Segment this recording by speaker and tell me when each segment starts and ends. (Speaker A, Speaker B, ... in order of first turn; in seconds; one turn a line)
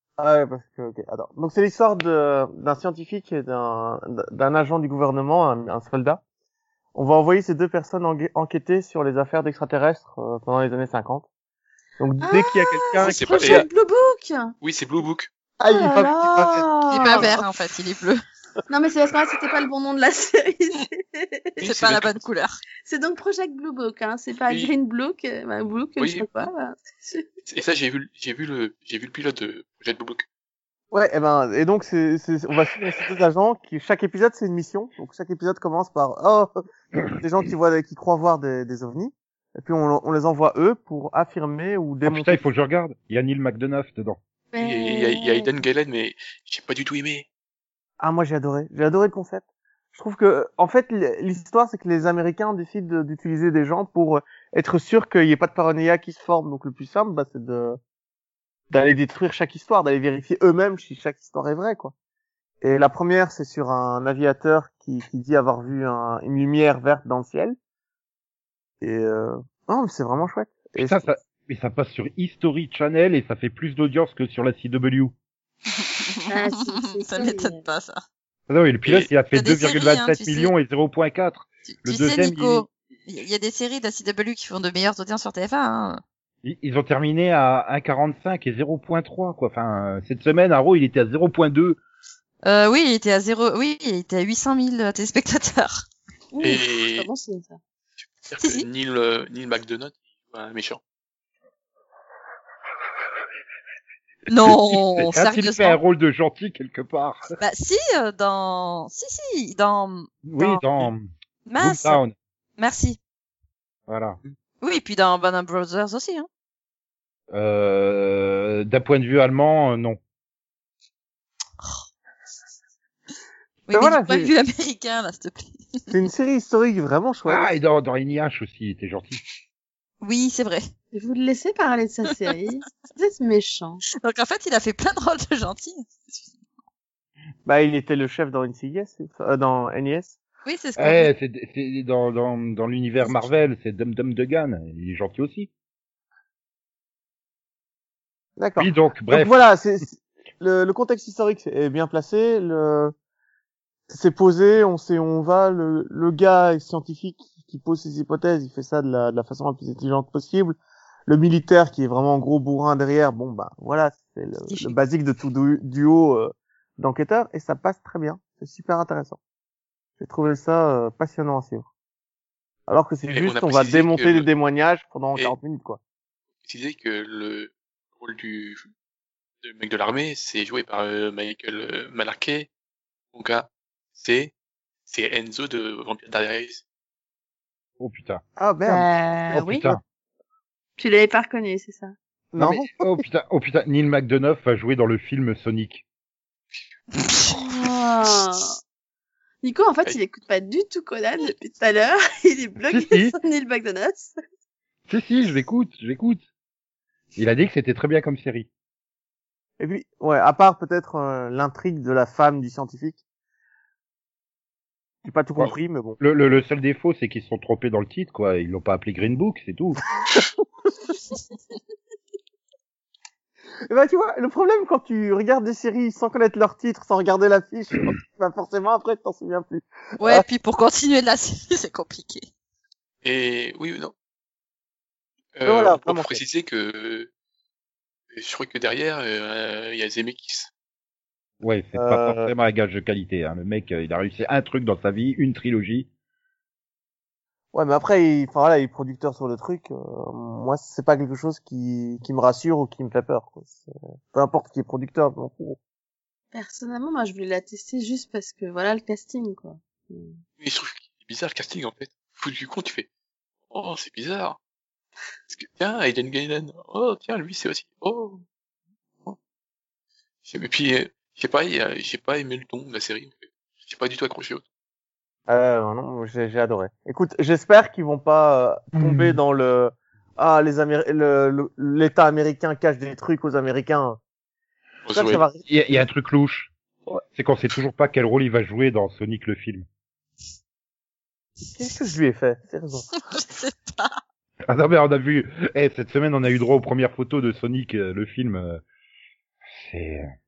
Speaker A: 0.2-6.2
Speaker A: 6.9-11.3
Speaker A: 12.0-13.7
Speaker B: 12.2-14.5
Speaker C: 13.0-13.7
Speaker C: 14.6-15.3
Speaker A: 15.6-17.4
Speaker B: 15.7-17.3
Speaker D: 16.9-18.2
Speaker B: 18.7-21.6
Speaker C: 21.6-22.2
Speaker D: 21.6-22.6
Speaker B: 22.9-27.2
Speaker C: 26.0-26.3
Speaker C: 27.5-30.3
Speaker A: 30.9-36.5
Speaker A: 37.1-42.4
Speaker E: 42.1-44.2
Speaker B: 44.5-45.5
Speaker C: 44.6-47.3
Speaker A: 48.0-57.8
Speaker A: 58.7-61.9
Speaker A: 62.6-67.6
Speaker A: 68.8-71.0
Speaker E: 70.8-75.1
Speaker D: 75.8-78.0
Speaker B: 76.3-77.6
Speaker E: 78.5-82.7
Speaker D: 79.3-80.5
Speaker D: 81.7-86.0
Speaker E: 86.4-91.8
Speaker D: 92.4-95.9
Speaker B: 96.3-97.6
Speaker C: 96.4-97.1
Speaker C: 98.2-100.8
Speaker D: 98.4-98.7
Speaker D: 104.3-105.8
Speaker E: 104.4-107.2
Speaker D: 107.4-110.7
Speaker E: 110.2-112.2
Speaker D: 111.5-112.0
Speaker D: 112.6-113.0
Speaker E: 113.9-114.2
Speaker D: 114.6-116.3
Speaker E: 117.3-120.0
Speaker D: 123.7-125.9
Speaker A: 123.7-124.3
Speaker A: 125.9-127.4
Speaker E: 127.3-129.2
Speaker D: 130.0-130.7
Speaker B: 130.9-133.8
Speaker D: 134.0-136.3
Speaker A: 137.4-140.2
Speaker D: 140.4-141.1
Speaker E: 140.8-145.5
Speaker A: 148.4-152.9
Speaker E: 148.6-149.3
Speaker A: 153.9-169.2
Speaker D: 164.5-164.8
Speaker A: 170.0-171.7
Speaker A: 172.7-175.8
Speaker C: 173.1-174.3
Speaker C: 176.4-178.7
Speaker C: 179.4-182.5
Speaker C: 183.1-184.3
Speaker C: 184.9-186.6
Speaker E: 187.8-188.8
Speaker A: 188.4-188.8
Speaker B: 188.7-189.7
Speaker E: 189.3-189.8
Speaker B: 190.8-191.9
Speaker A: 192.3-192.9
Speaker E: 192.4-195.8
Speaker B: 197.3-198.6
Speaker B: 199.4-204.1
Speaker E: 202.7-203.2
Speaker E: 204.9-206.2
Speaker E: 207.2-208.5
Speaker A: 209.6-213.0
Speaker A: 215.0-216.0
Speaker E: 215.4-219.8
Speaker A: 223.7-230.2
Speaker D: 230.0-232.3
Speaker C: 233.0-233.9
Speaker C: 235.4-237.1
Speaker A: 235.4-236.2
Speaker C: 238.2-240.5
Speaker E: 241.4-245.9
Speaker A: 241.8-242.3
Speaker A: 247.5-255.6
Speaker B: 256.3-260.1
Speaker C: 260.4-262.9
Speaker C: 263.5-264.4
Speaker C: 265.3-268.2
Speaker C: 270.2-274.4
Speaker A: 275.3-284.0
Speaker E: 278.8-279.2
Speaker C: 284.9-285.2
Speaker A: 284.9-285.4
Speaker E: 285.5-286.5
Speaker E: 287.1-289.7
Speaker A: 291.6-292.9
Speaker D: 292.9-294.0
Speaker E: 294.5-298.6
Speaker E: 299.6-300.1